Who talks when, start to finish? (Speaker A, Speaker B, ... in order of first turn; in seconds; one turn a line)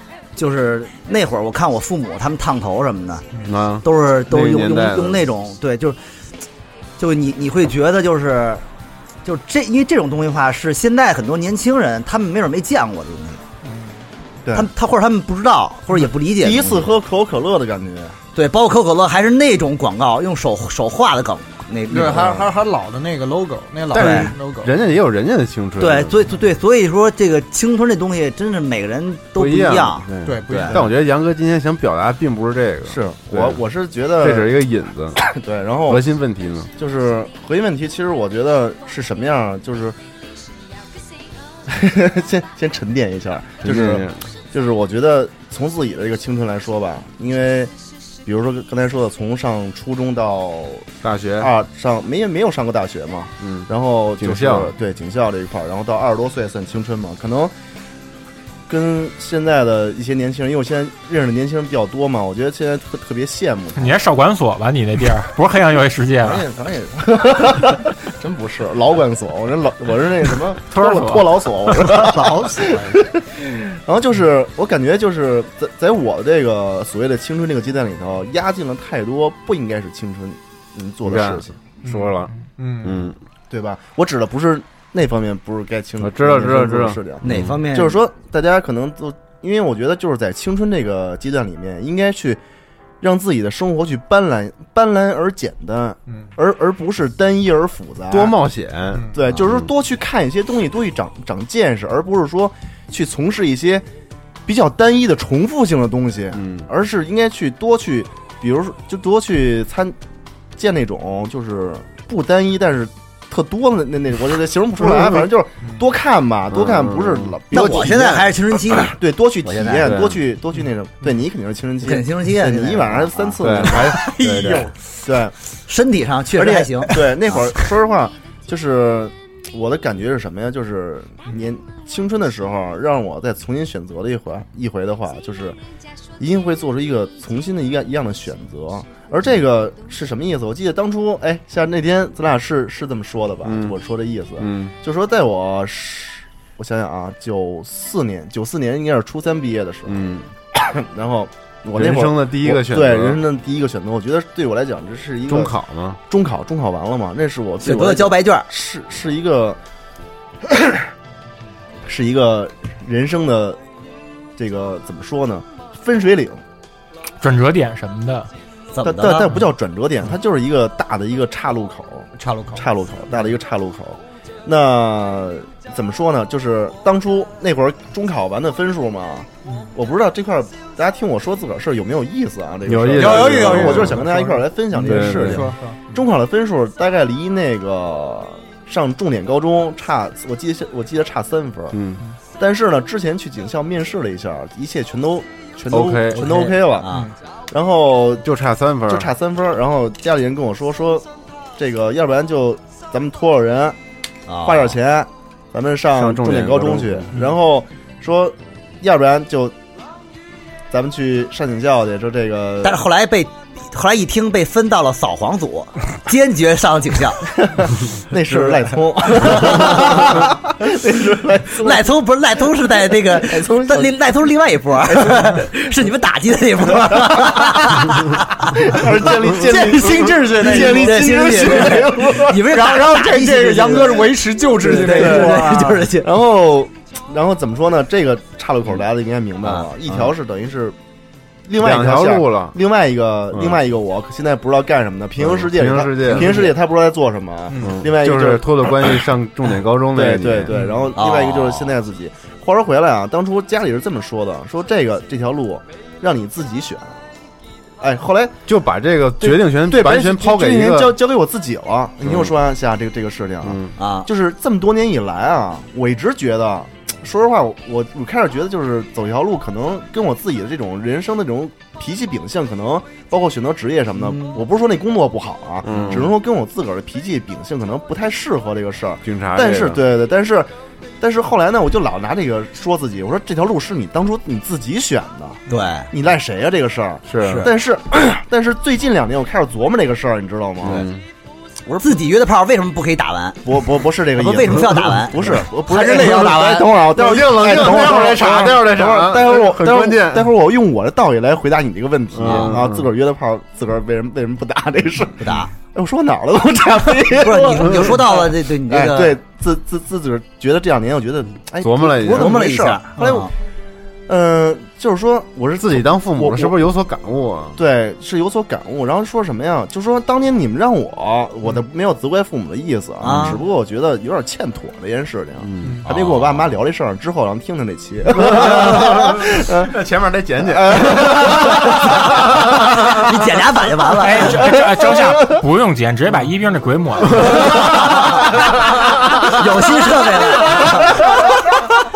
Speaker A: 0.3-3.2
Speaker B: 3.4-5.2
Speaker A: 3.8-6.0
Speaker A: 7.0-8.6
Speaker A: 9.2-13.4
Speaker C: 13.6-14.0
Speaker A: 14.5-16.9
Speaker D: 16.3-18.1
Speaker A: 18.3-22.3
Speaker C: 21.9-24.7
Speaker D: 22.0-22.5
Speaker A: 23.9-24.3
Speaker B: 23.9-26.2
Speaker A: 25.8-30.7
Speaker B: 29.4-33.6
Speaker C: 30.2-30.9
Speaker D: 32.9-34.6
Speaker B: 34.2-35.2
Speaker D: 35.2-36.0
Speaker B: 35.9-36.7
Speaker D: 36.8-40.0
Speaker D: 41.7-47.7
Speaker B: 43.6-44.2
Speaker D: 48.2-57.5
Speaker B: 51.0-51.5
Speaker B: 53.4-53.7
Speaker B: 54.2-54.7
Speaker D: 58.7-64.0
Speaker E: 63.8-66.4
Speaker D: 66.2-81.6
Speaker E: 70.7-71.7
Speaker C: 72.2-72.9
Speaker B: 81.0-83.2
Speaker C: 81.8-83.1
Speaker D: 83.5-92.4
Speaker B: 86.0-87.6
Speaker A: 87.2-88.0
Speaker D: 93.0-98.3
Speaker B: 98.1-99.7
Speaker C: 98.9-99.2
Speaker D: 99.1-103.8
Speaker D: 104.5-110.0
Speaker B: 106.3-106.7
Speaker D: 110.5-124.1
Speaker B: 114.9-115.2
Speaker B: 116.5-117.4
Speaker A: 117.5-119.9
Speaker B: 119.8-120.2
Speaker A: 121.8-123.9
Speaker B: 123.4-124.7
Speaker C: 124.0-124.7
Speaker D: 125.0-125.3
Speaker A: 125.7-127.5
Speaker D: 126.3-135.6
Speaker D: 136.2-150.0
Speaker B: 143.4-143.8
Speaker B: 144.4-144.7
Speaker B: 149.9-150.3
Speaker D: 150.5-155.5
Speaker B: 151.7-153.2
Speaker B: 155.3-156.0
Speaker D: 156.1-159.6
Speaker A: 157.6-158.5
Speaker D: 160.4-160.8
Speaker D: 161.8-163.6
Speaker D: 164.4-166.4
Speaker E: 167.2-168.3
Speaker A: 168.7-169.3
Speaker D: 168.8-191.8
Speaker C: 172.2-173.3
Speaker B: 182.7-184.0
Speaker C: 182.9-185.8
Speaker B: 184.8-185.5
Speaker B: 191.7-192.0
Speaker D: 192.4-196.9
Speaker B: 195.7-196.3
Speaker A: 196.2-197.1
Speaker D: 197.5-198.2
Speaker B: 198.2-199.1
Speaker D: 198.9-203.8
Speaker A: 204.3-204.7
Speaker D: 204.4-209.6
Speaker B: 205.9-207.1
Speaker D: 210.7-212.8
Speaker A: 212.6-217.3
Speaker D: 217.4-221.8
Speaker A: 219.2-220.2
Speaker A: 221.6-228.8
Speaker D: 223.1-223.9
Speaker D: 224.9-225.3
Speaker D: 226.9-227.6
Speaker D: 228.5-232.5
Speaker C: 229.4-231.8
Speaker A: 229.5-236.1
Speaker C: 232.4-235.8
Speaker D: 234.8-240.8
Speaker D: 241.5-248.9
Speaker B: 241.6-242.6
Speaker B: 243.3-243.6
Speaker B: 245.2-246.4
Speaker C: 246.1-246.5
Speaker C: 247.5-247.8
Speaker B: 247.6-250.5
Speaker D: 249.9-257.0
Speaker C: 250.5-250.9
Speaker A: 251.0-251.7
Speaker D: 257.8-258.4
Speaker B: 258.5-260.9
Speaker D: 259.2-290.9
Speaker B: 262.0-262.3
Speaker B: 263.4-263.7
Speaker A: 263.8-264.1
Speaker A: 274.0-274.4
Speaker B: 275.6-276.1
Speaker B: 279.0-279.8
Speaker A: 285.5-285.9
Speaker B: 287.1-287.5
Speaker A: 287.2-287.5
Speaker B: 290.6-291.0
Speaker D: 291.6-291.9
Speaker A: 291.8-293.6
Speaker D: 293.4-313.3
Speaker A: 294.1-295.4
Speaker C: 295.7-296.8
Speaker B: 297.0-300.3
Speaker B: 302.1-302.9
Speaker A: 302.2-302.6
Speaker A: 305.2-305.5
Speaker A: 307.2-309.2
Speaker B: 311.6-312.3
Speaker A: 312.1-313.3
Speaker D: 314.1-316.6
Speaker B: 315.6-317.6
Speaker D: 317.6-329.7
Speaker A: 323.0-323.4
Speaker B: 325.4-326.3
Speaker B: 328.1-332.5
Speaker D: 330.4-331.9
Speaker A: 331.5-334.4
Speaker E: 334.0-337.6
Speaker D: 334.8-335.4
Speaker A: 337.4-341.5